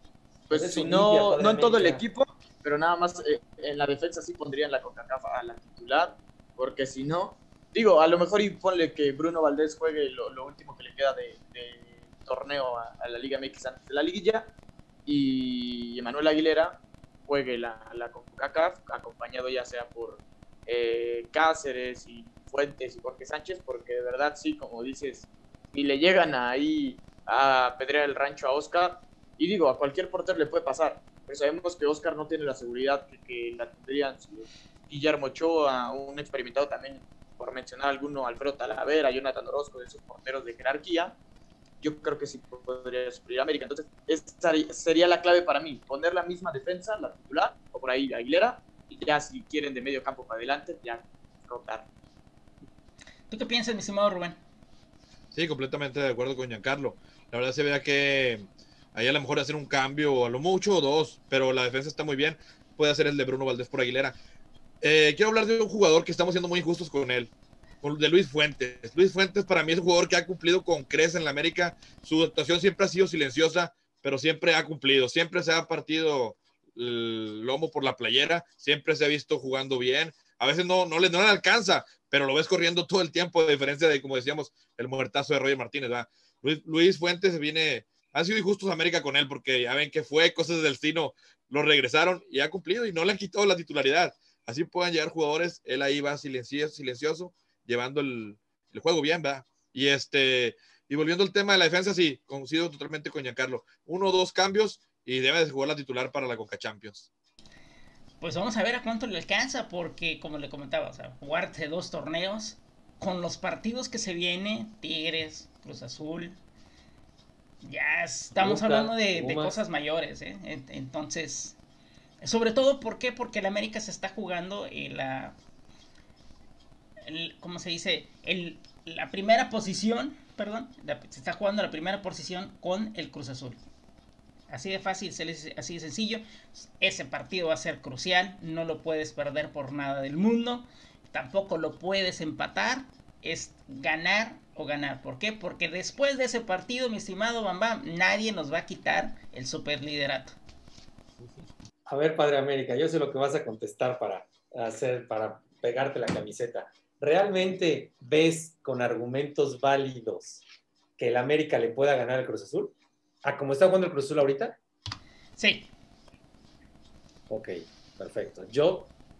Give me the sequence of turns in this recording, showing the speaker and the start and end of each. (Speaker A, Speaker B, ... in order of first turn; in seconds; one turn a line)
Speaker A: 0.5-14.5
Speaker B: 0.5-2.0
Speaker A: 15.1-41.2
Speaker A: 41.8-51.9
Speaker C: 53.3-54.4
Speaker D: 55.3-64.2
Speaker D: 64.8-107.1
Speaker C: 108.2-116.4
Speaker C: 117.6-121.6
Speaker B: 118.4-119.6
Speaker C: 122.2-125.4
Speaker C: 127.1-133.6
Speaker C: 134.5-150.4
Speaker B: 151.9-160.4
Speaker B: 161.0-164.6
Speaker C: 165.4-165.7
Speaker B: 167.3-168.9